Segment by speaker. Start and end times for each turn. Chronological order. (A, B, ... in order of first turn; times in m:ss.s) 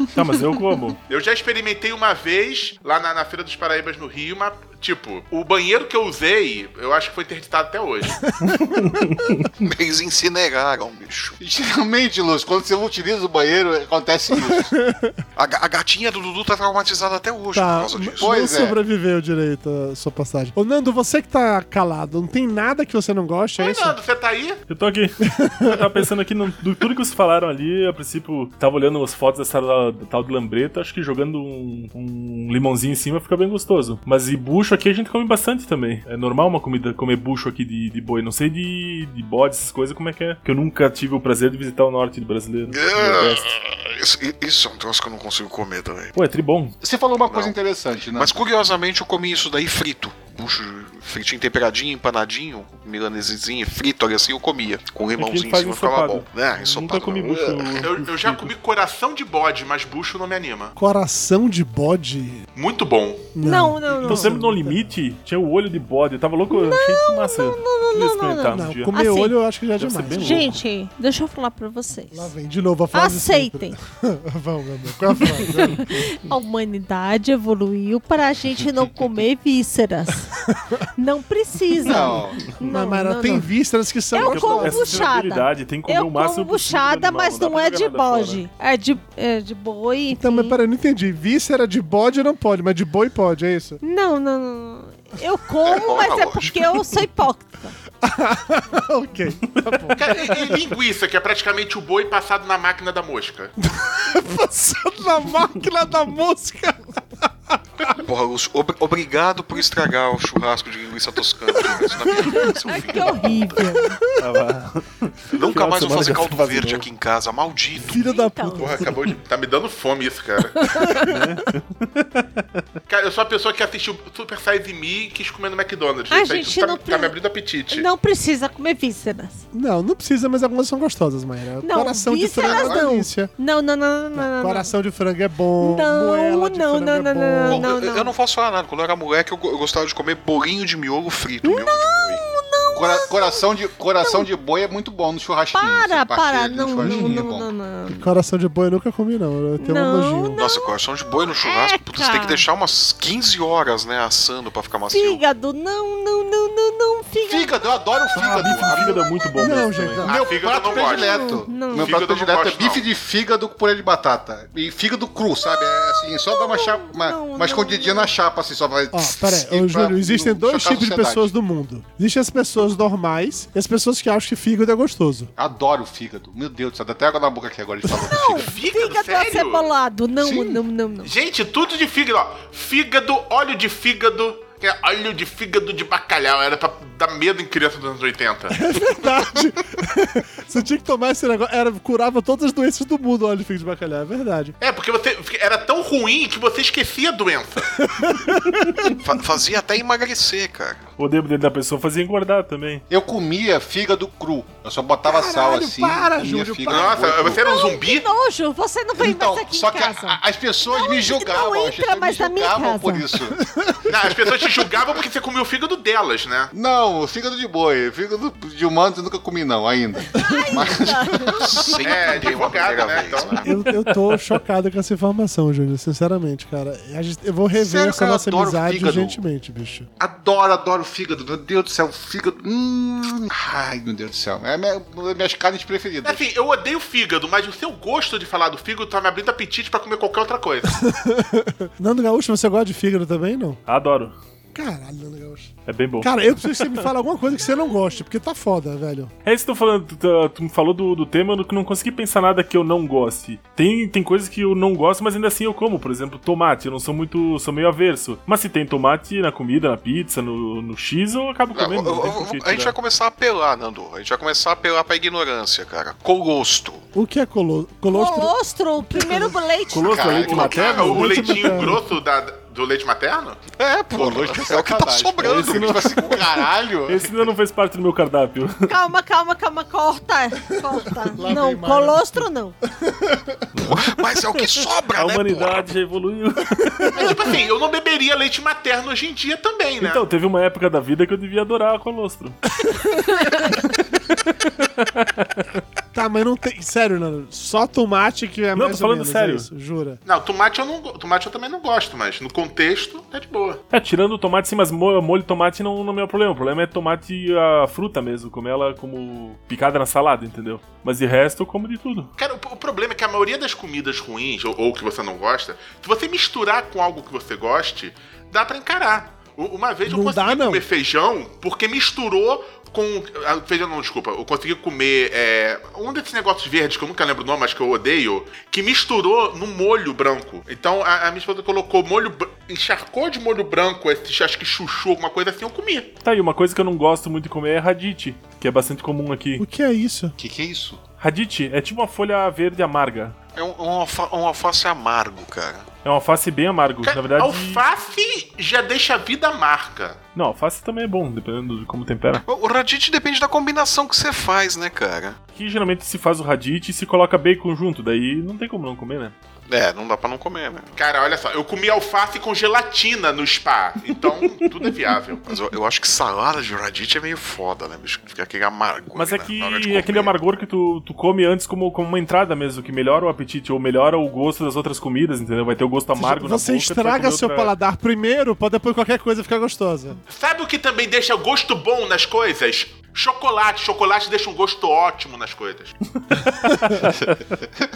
0:00.1-0:01.0 A
0:01.1-0:08.2 B
0:08.2-0:08.5 C
0:08.5-0:09.5 A
0:09.6-0:11.4 D
0:11.4-0:14.7 E
0:14.3-0:15.2 C
0:15.4-0:18.3 D
0:17.5-0:24.0 C
0:18.2-0:18.8 E
0:23.6-0:24.6 B
0:24.7-0:43.4 A
0:25.2-0:26.0 C
0:42.7-0:46.1 D
0:46.1-0:46.8 A
0:46.8-0:48.4 E
0:47.3-0:47.6 D
0:48.1-0:57.9 D
0:55.2-0:58.5 A
0:57.8-1:00.7 B
1:00.8-1:02.4 C
1:02.5-1:03.3 B
1:03.3-1:04.9 C
1:03.4-1:04.3 F
1:04.0-1:08.9 A
1:06.5-1:09.4 F
1:08.5-1:10.5 C
1:09.9-1:12.3 F
1:12.1-1:15.9 C
1:12.9-1:13.8 F
1:15.5-1:20.3 F
1:20.5-1:20.8 C
1:21.0-1:23.5 F
1:21.8-1:22.4 E
1:22.6-1:25.1 C
1:24.1-1:30.6 F
1:24.2-1:28.4 A
1:30.1-1:33.8 C
1:33.8-1:37.7 F
1:35.6-1:36.6 D
1:38.0-1:40.6 C
1:39.9-1:43.5 B
1:43.6-1:47.9 C
1:47.9-1:53.5 D
1:51.6-1:52.4 C
1:52.2-1:54.0 F
1:53.7-1:54.2 C
1:54.2-1:56.9 A
1:55.3-1:58.0 D
1:57.8-1:58.9 C
1:58.0-1:58.8 F
1:58.6-2:00.6 B
2:00.6-2:01.1 F
2:01.0-2:02.2 A
2:02.9-2:07.9 B
2:06.1-2:07.2 F
2:07.7-2:09.4 F
2:09.5-2:13.3 C
2:11.6-2:14.7 F
2:12.4-2:12.8 D
2:14.1-2:17.7 C
2:15.6-2:18.1 F
2:17.4-2:22.2 D
2:21.4-2:23.5 F
2:22.7-2:27.5 E
2:24.0-2:24.3 F
2:25.5-2:28.1 F
2:26.8-2:27.1 C
2:27.9-2:30.4 C
2:29.6-2:30.7 F
2:30.4-2:35.2 D
2:31.3-2:32.4 F
2:34.9-2:37.6 F
2:37.3-2:39.3 E
2:38.1-2:40.0 A
2:39.4-2:40.1 C
2:40.0-2:41.2 B
2:40.0-2:51.3 E
2:40.7-2:42.0 F
2:41.8-2:42.8 B
2:45.8-2:48.1 F
2:48.9-2:55.3 C
2:55.4-2:58.5 E
2:58.1-3:01.1 F
2:58.4-2:59.7 B
3:00.2-3:00.6 E
3:01.0-3:08.6 B
3:08.5-3:14.5 C
3:14.6-3:17.8 B
3:17.7-3:18.8 C
3:19.0-3:20.8 D
3:21.0-3:22.8 A
3:22.9-3:27.5 E
3:25.0-3:27.2 C
3:26.7-3:28.1 B
3:27.4-3:33.1 F
3:29.0-3:33.4 E
3:33.4-3:34.1 C
3:33.9-3:36.5 B
3:36.5-3:42.6 E
3:40.1-3:41.7 F
3:41.4-3:43.4 D
3:41.8-3:43.4 B
3:43.4-3:49.9 C
3:43.5-3:44.2 A
3:47.6-3:49.1 D
3:47.8-3:49.1 E
3:50.0-3:56.3 E
3:56.0-4:00.8 B
4:00.6-4:03.6 C
4:03.7-4:04.2 A
4:04.5-4:09.1 C
4:05.6-4:06.7 A
4:09.2-4:22.7 A
4:21.5-4:26.8 D
4:26.9-4:28.4 C
4:27.9-4:30.5 F
4:28.9-4:29.4 C
4:29.7-4:31.0 E
4:29.7-4:31.6 A
4:30.2-4:33.4 B
4:30.7-4:31.8 C
4:33.6-4:36.2 D
4:33.9-4:37.3 E
4:35.2-4:36.0 A
4:36.8-4:38.7 A
4:38.7-4:42.6 F
4:41.1-4:43.4 C
4:43.6-4:45.7 D
4:44.9-4:47.1 A
4:46.8-4:47.3 C
4:46.9-4:50.0 B
4:49.8-4:52.3 A
4:53.2-4:55.5 A
4:55.9-5:00.0 C
4:58.5-4:59.5 A
5:00.0-5:03.6 B
5:03.7-5:12.1 A
5:12.2-5:35.9 B
5:19.8-5:20.7 C
5:36.0-5:39.4 A
5:39.4-5:40.1 C
5:40.2-5:40.8 E
5:41.0-5:43.2 A
5:43.3-5:45.7 D
5:45.8-5:47.6 A
5:46.8-5:50.0 B
5:50.1-5:52.2 A
5:52.2-5:55.2 D
5:55.4-5:59.1 A
5:59.5-6:00.7 D
6:00.8-6:05.2 B
6:05.2-6:10.1 D
6:08.9-6:17.5 A
6:15.9-6:20.0 C
6:20.1-6:25.7 B
6:26.0-6:27.1 A